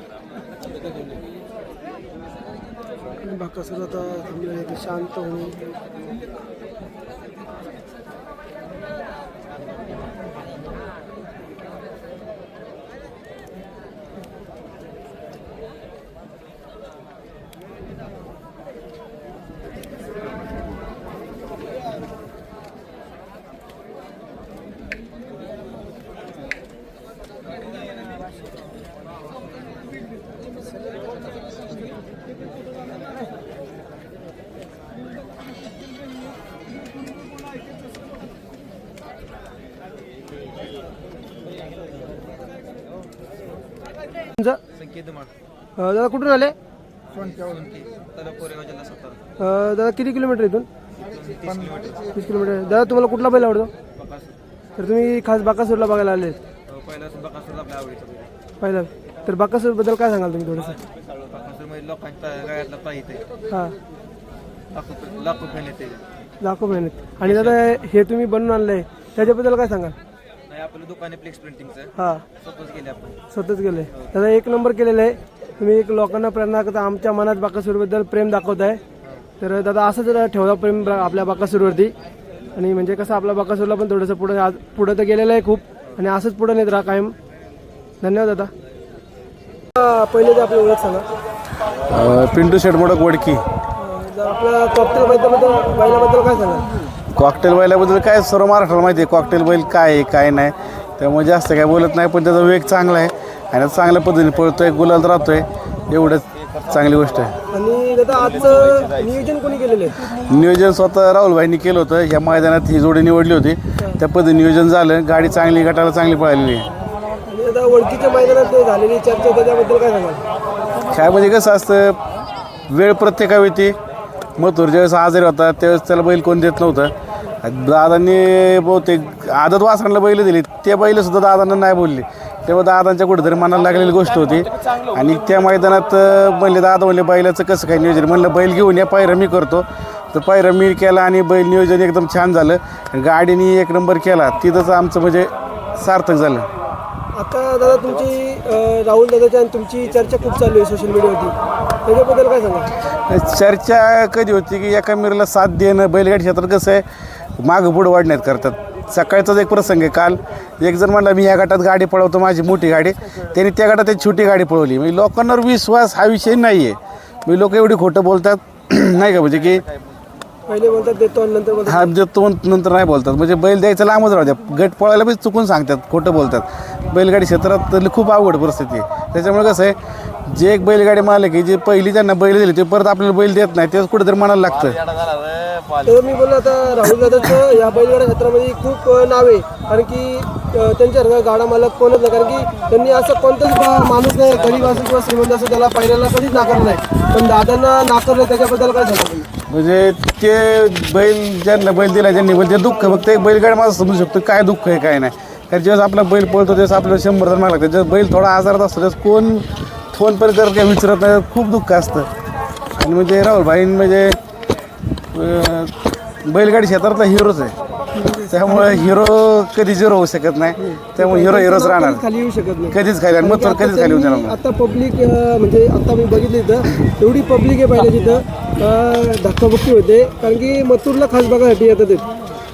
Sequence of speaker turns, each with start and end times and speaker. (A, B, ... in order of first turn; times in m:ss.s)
0:03.2-0:05.6 A
0:44.7-0:45.3 B
0:45.8-0:46.6 A
0:47.1-0:49.2 B
0:49.4-0:50.7 A
0:51.0-0:52.1 B
0:52.1-0:53.7 A
0:54.0-0:54.3 B
0:54.8-0:56.4 A
0:56.7-0:58.3 B
0:58.6-1:00.8 A
1:01.2-1:03.2 B
1:04.7-1:06.0 B
1:06.4-1:10.0 A
1:07.2-1:07.6 B
1:10.5-1:13.2 B
1:12.0-1:12.2 A
1:13.3-1:18.8 A
1:19.4-1:21.9 A
1:22.5-1:27.2 A
1:28.0-1:28.5 A
1:29.8-1:31.1 A
1:31.9-1:33.4 C
1:33.8-1:36.7 A
1:37.2-1:47.4 C
1:47.5-1:50.1 A
1:50.2-1:56.7 C
1:57.3-2:00.2 A
2:00.9-2:02.0 C
2:02.7-2:03.8 C
2:04.4-2:26.5 C
2:27.1-2:31.3 A
2:31.8-2:32.7 A
2:33.1-2:36.8 C
2:37.4-2:49.6 C
2:50.5-2:51.9 A
2:51.7-2:59.8 C
3:00.3-3:04.8 C
3:05.4-3:05.7 B
3:05.8-3:19.3 A
3:19.5-3:32.1 C
3:32.8-3:34.2 C
3:35.1-3:35.7 C
3:36.2-3:37.6 C
3:37.9-3:38.9 A
3:38.3-3:42.0 C
3:40.6-3:52.0 A
3:42.7-3:44.4 C